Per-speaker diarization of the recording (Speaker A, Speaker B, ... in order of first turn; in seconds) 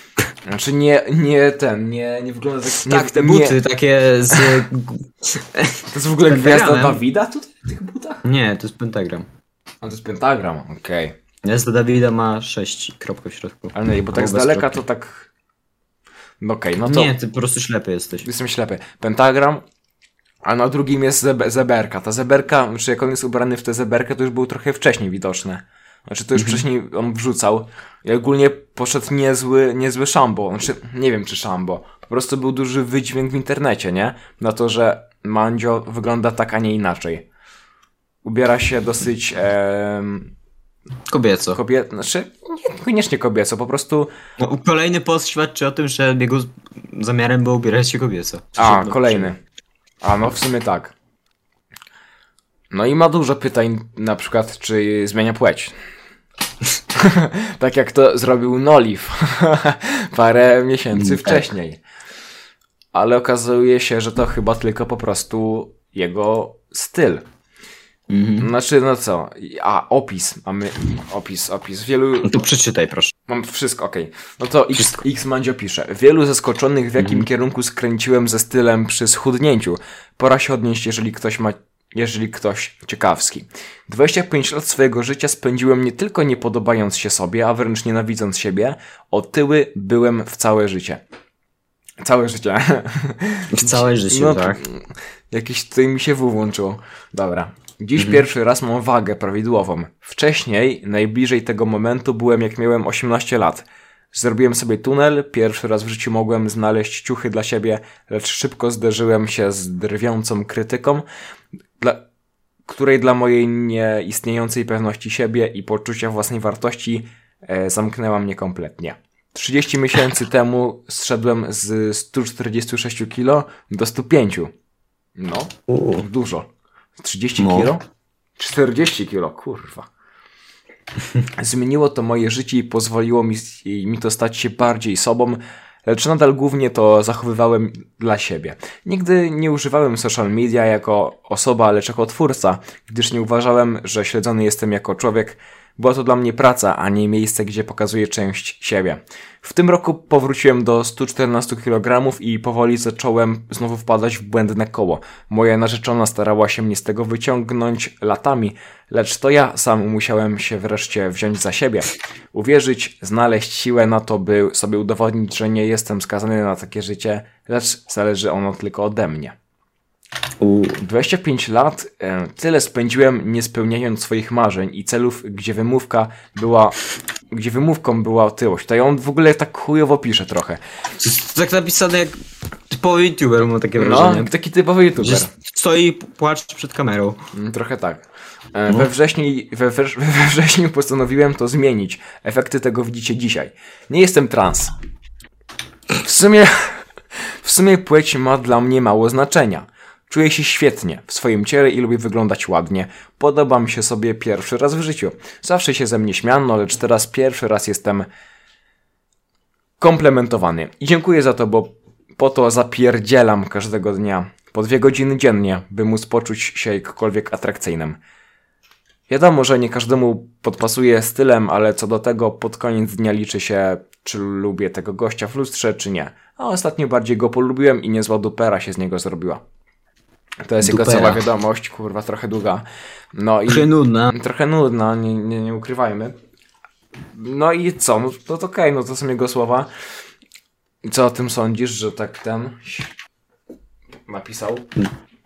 Speaker A: 0.4-3.6, 4.3-4.6, 5.9-8.2, 9.8-11.2, 13.7-15.3, 16.4-17.1, 18.2-19.6, 20.4-37.2, 38.2-40.3, 41.5-44.1, 48.6-49.4, 50.0-50.9, 52.7-55.7, 56.9-61.8, 62.9-67.2, 68.4-72.3, 73.3-91.0, 92.0-111.0, 111.8-112.0, 112.7-124.5, 125.2-127.8, 128.4-129.9, 131.3-169.3, 170.8-176.8, 177.3-180.6, 183.8-185.3, 187.3-194.7, 195.9-208.1, 209.8-218.0, 219.1-229.4, 230.4-236.2, 237.1-239.7, 240.8-242.9, 244.1-244.7
Speaker B: 2.8-7.0, 8.2-9.3, 11.4-14.8, 16.8-18.3, 26.3-26.6, 41.1-41.6, 44.4-49.3, 60.9-61.4, 68.1-68.5, 72.2-73.1, 74.7-75.0, 77.0-77.3, 93.5-94.6, 125.7-126.0, 127.4-127.7, 170.4-170.8, 181.0-182.1, 182.7-184.3, 185.0-187.2, 230.6-231.2, 233.5-234.1